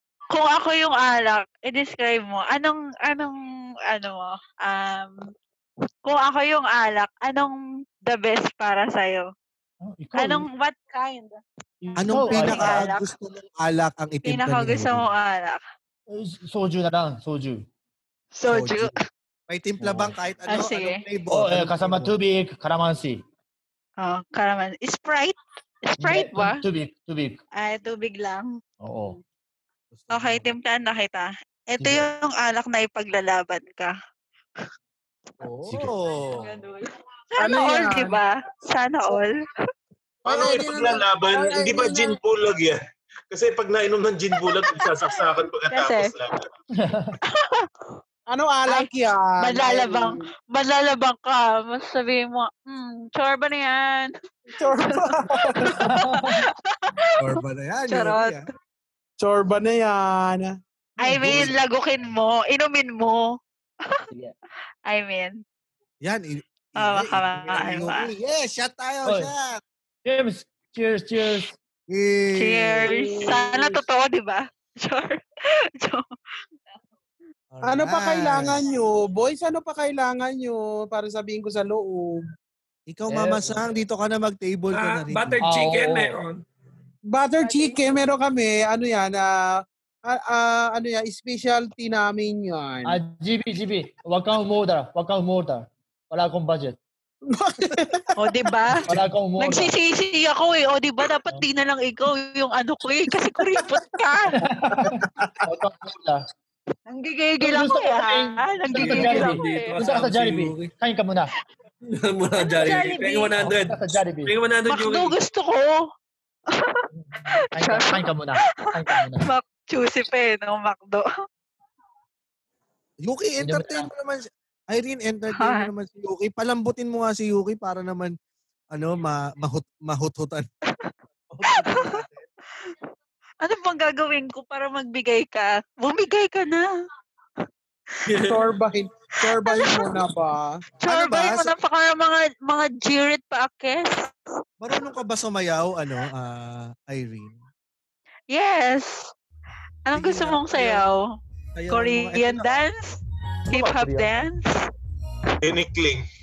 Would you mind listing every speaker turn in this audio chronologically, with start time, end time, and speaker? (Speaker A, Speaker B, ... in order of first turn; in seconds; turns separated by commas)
Speaker A: 0.3-3.4, Speaker A: 3.9-5.3, Speaker A: 6.0-9.3, Speaker B: 9.8-10.5, Speaker A: 10.2-11.4, Speaker B: 11.8-12.9, Speaker A: 11.9-13.1, Speaker C: 12.0-15.1, Speaker A: 14.2-15.6, Speaker B: 16.1-17.7, Speaker A: 18.4-18.9, Speaker C: 18.5-18.9, Speaker C: 19.5-22.2, Speaker B: 19.8-20.1, Speaker A: 20.5-21.0, Speaker B: 21.3-23.2, Speaker A: 24.0-26.6, Speaker B: 26.0-27.4, Speaker A: 27.6-29.2, Speaker B: 28.8-29.2, Speaker C: 29.9-30.5, Speaker A: 30.1-33.9, Speaker B: 31.8-32.1, Speaker C: 35.4-36.4, Speaker B: 35.7-35.9, Speaker A: 36.4-39.4, Speaker D: 37.4-38.2, Speaker D: 40.3-42.1, Speaker E: 40.3-42.8, Speaker E: 43.3-46.4, Speaker A: 44.5-45.1, Speaker A: 45.7-46.1, Speaker B: 46.8-47.2, Speaker A: 47.3-47.7, Speaker D: 48.3-50.2, Speaker A: 49.4-54.1, Speaker D: 54.6-55.9, Speaker A: 54.8-57.0, Speaker B: 55.7-56.4, Speaker C: 57.2-58.5, Speaker A: 57.9-58.5, Speaker D: 59.2-60.5, Speaker A: 61.0-63.3, Speaker C: 61.2-61.5, Speaker A: 64.9-65.4, Speaker C: 66.0-69.6, Speaker A: 66.8-68.1, Speaker B: 69.0-69.3, Speaker B: 70.0-71.6, Speaker C: 71.9-73.3, Speaker A: 72.4-75.2, Speaker D: 72.9-73.6, Speaker C: 77.5-78.6, Speaker D: 77.6-82.2, Speaker C: 82.9-85.4, Speaker B: 83.1-83.5, Speaker F: 84.7-86.4, Speaker B: 85.4-86.2, Speaker D: 87.1-89.3, Speaker A: 87.4-88.0, Speaker D: 90.1-93.0, Speaker B: 92.8-96.8, Speaker D: 97.3-98.1, Speaker A: 98.2-104.5, Speaker B: 98.9-99.7, Speaker B: 104.4-106.2, Speaker D: 104.7-105.4, Speaker A: 106.9-109.8, Speaker B: 107.4-111.3, Speaker F: 108.7-110.7, Speaker F: 111.9-115.2, Speaker A: 112.4-113.3, Speaker B: 113.4-114.3, Speaker A: 114.7-115.8, Speaker A: 116.5-116.8, Speaker B: 117.0-119.3, Speaker A: 117.6-118.1, Speaker A: 118.9-121.1, Speaker C: 123.0-128.2, Speaker B: 123.4-123.9, Speaker A: 125.3-125.7, Speaker C: 128.7-130.5, Speaker C: 131.3-132.2, Speaker A: 131.5-131.9, Speaker A: 133.4-136.7, Speaker F: 138.1-138.5, Speaker D: 138.2-140.6, Speaker A: 139.4-139.8, Speaker A: 140.8-144.1, Speaker C: 140.8-141.5, Speaker C: 144.6-147.4, Speaker A: 148.3-149.1, Speaker A: 149.9-151.0, Speaker C: 149.9-150.9, Speaker C: 151.6-152.7, Speaker A: 151.7-154.6, Speaker B: 153.5-154.3, Speaker E: 155.4-156.1